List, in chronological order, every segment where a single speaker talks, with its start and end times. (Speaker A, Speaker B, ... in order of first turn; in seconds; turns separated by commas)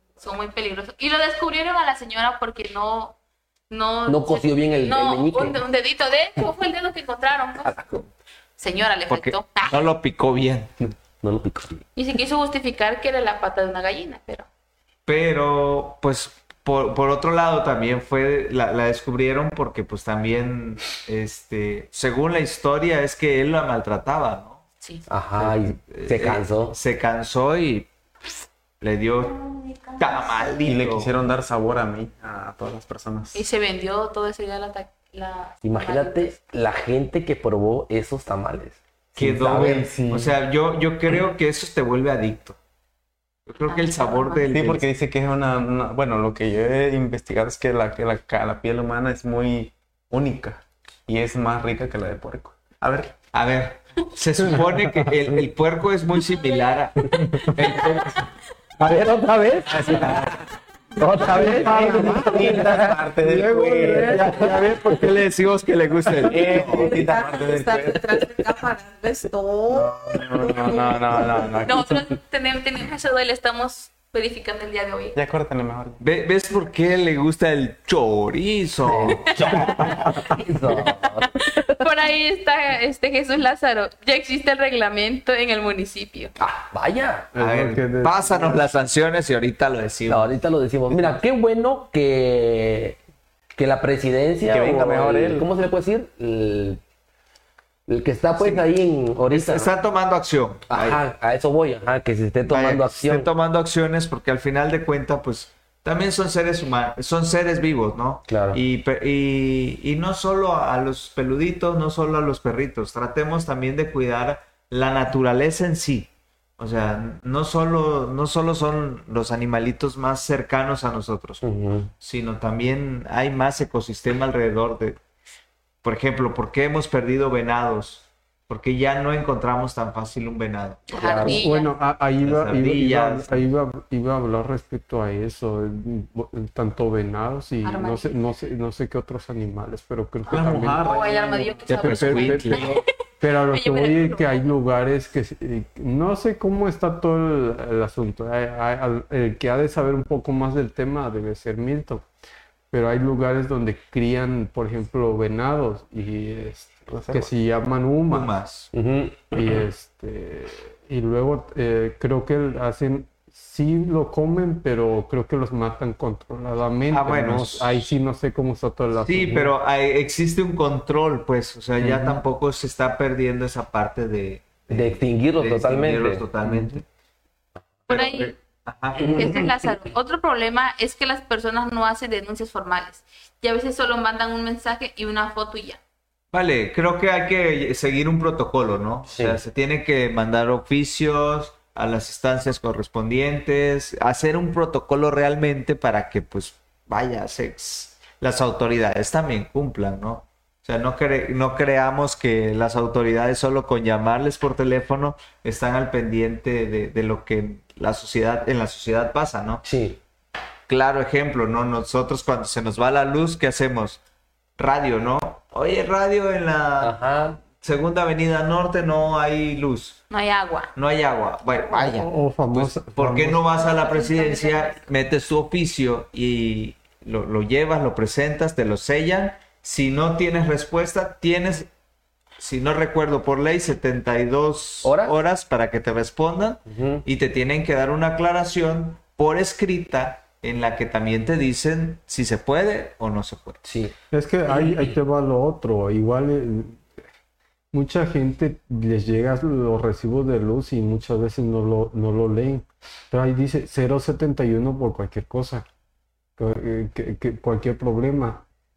Speaker A: 0.2-3.1, Speaker A: 3.7-8.0, Speaker B: 4.1-5.6, Speaker B: 7.6-8.0, Speaker A: 8.6-9.8, Speaker C: 9.1-10.7, Speaker B: 11.2-11.8, Speaker A: 11.9-14.5, Speaker C: 15.1-24.6, Speaker B: 25.1-26.8, Speaker C: 25.4-27.9, Speaker C: 28.8-29.4, Speaker A: 29.2-30.6, Speaker C: 30.0-31.1, Speaker D: 30.6-33.4, Speaker A: 33.3-36.4, Speaker B: 35.6-39.8, Speaker C: 39.2-42.6, Speaker D: 39.2-40.4, Speaker C: 43.5-44.8, Speaker A: 43.7-44.5, Speaker D: 44.5-53.1, Speaker C: 53.3-58.2, Speaker B: 58.8-60.2, Speaker D: 59.6-60.4, Speaker C: 60.0-60.2, Speaker B: 61.0-62.7, Speaker E: 61.2-65.2, Speaker D: 61.2-64.4, Speaker C: 64.0-66.9, Speaker D: 66.2-68.2, Speaker F: 66.6-71.0, Speaker D: 69.7-72.0, Speaker A: 71.6-75.2, Speaker D: 75.1-76.0, Speaker C: 76.0-79.8, Speaker B: 78.8-81.8, Speaker A: 79.4-80.0, Speaker A: 80.7-86.3, Speaker B: 86.4-87.3, Speaker E: 87.3-88.6, Speaker C: 87.3-90.3, Speaker B: 90.1-93.0, Speaker B: 93.5-96.8, Speaker D: 94.5-95.5, Speaker B: 97.9-99.7, Speaker C: 98.4-98.7, Speaker C: 99.3-101.0, Speaker B: 100.7-103.3, Speaker C: 102.5-121.4, Speaker B: 108.3-108.6, Speaker B: 121.4-121.9, Speaker C: 122.0-125.0, Speaker C: 125.8-131.4, Speaker A: 130.9-131.7, Speaker E: 131.0-152.1, Speaker C: 132.2-133.4, Speaker A: 137.6-138.2, Speaker C: 140.3-140.9, Speaker A: 140.3-142.8, Speaker C: 141.6-142.8, Speaker A: 143.5-144.6, Speaker E: 152.7-158.3, Speaker D: 156.9-157.3, Speaker C: 158.1-158.7, Speaker B: 158.7-159.2, Speaker E: 159.3-169.5, Speaker C: 166.9-167.9, Speaker C: 169.0-176.8, Speaker B: 171.8-172.2, Speaker B: 174.7-176.3, Speaker A: 177.9-178.4, Speaker C: 177.9-179.5, Speaker B: 179.0-179.3, Speaker A: 179.1-185.8, Speaker C: 186.3-209.6, Speaker B: 189.1-189.4, Speaker B: 209.6-210.0, Speaker C: 210.7-214.0, Speaker C: 214.6-220.0, Speaker B: 216.8-217.4, Speaker A: 220.1-220.7, Speaker C: 220.7-231.7, Speaker E: 221.7-223.4, Speaker A: 223.6-224.8, Speaker C: 232.4-243.6, Speaker B: 234.8-235.2, Speaker B: 236.7-237.0, Speaker B: 243.6-243.9, Speaker E: 244.1-246.9, Speaker E: 247.7-255.7, Speaker E: 256.4-258.4